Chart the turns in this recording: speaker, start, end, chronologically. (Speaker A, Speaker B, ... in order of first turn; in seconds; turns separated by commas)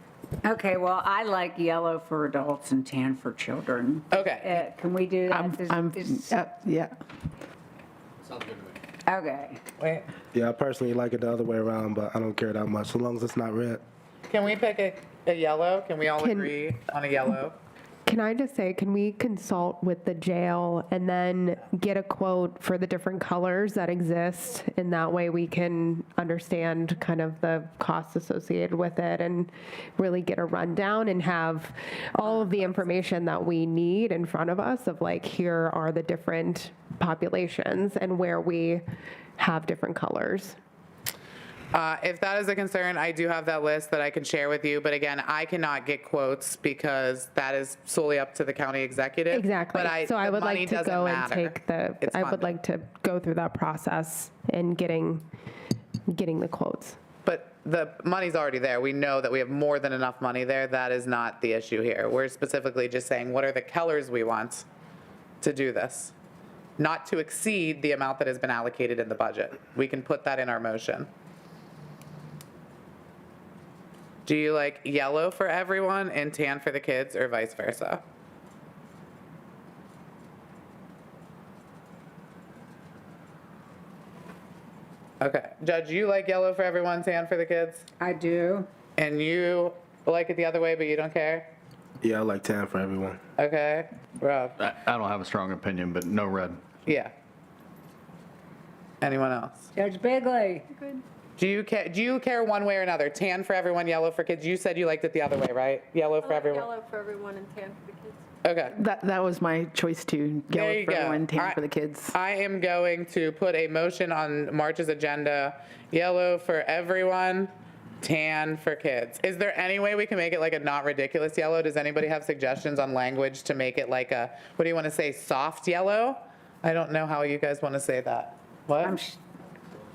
Speaker A: 0.4-6.3, Speaker B: 4.1-4.6, Speaker C: 5.3-7.0, Speaker A: 9.1-9.6, Speaker B: 9.8-10.1, Speaker D: 10.3-13.8, Speaker B: 14.3-17.5, Speaker E: 16.2-16.5, Speaker E: 18.1-38.8, Speaker E: 39.4-40.6, Speaker B: 41.7-52.5, Speaker E: 49.3-55.2, Speaker E: 56.1-57.0, Speaker B: 57.2-64.7, Speaker B: 65.4-66.1, Speaker B: 66.8-71.1, Speaker B: 74.2-78.0, Speaker B: 85.2-87.8, Speaker A: 88.0-88.7, Speaker B: 89.0-91.5, Speaker D: 92.0-93.2, Speaker B: 93.4-94.6, Speaker F: 94.6-96.6, Speaker B: 96.8-97.1, Speaker B: 99.0-99.7, Speaker A: 99.7-100.7, Speaker G: 100.7-101.0, Speaker B: 101.4-106.7, Speaker G: 106.2-108.2, Speaker B: 108.4-108.8, Speaker C: 108.7-112.2, Speaker B: 110.5-117.5, Speaker B: 118.0-129.0, Speaker A: 128.8-129.2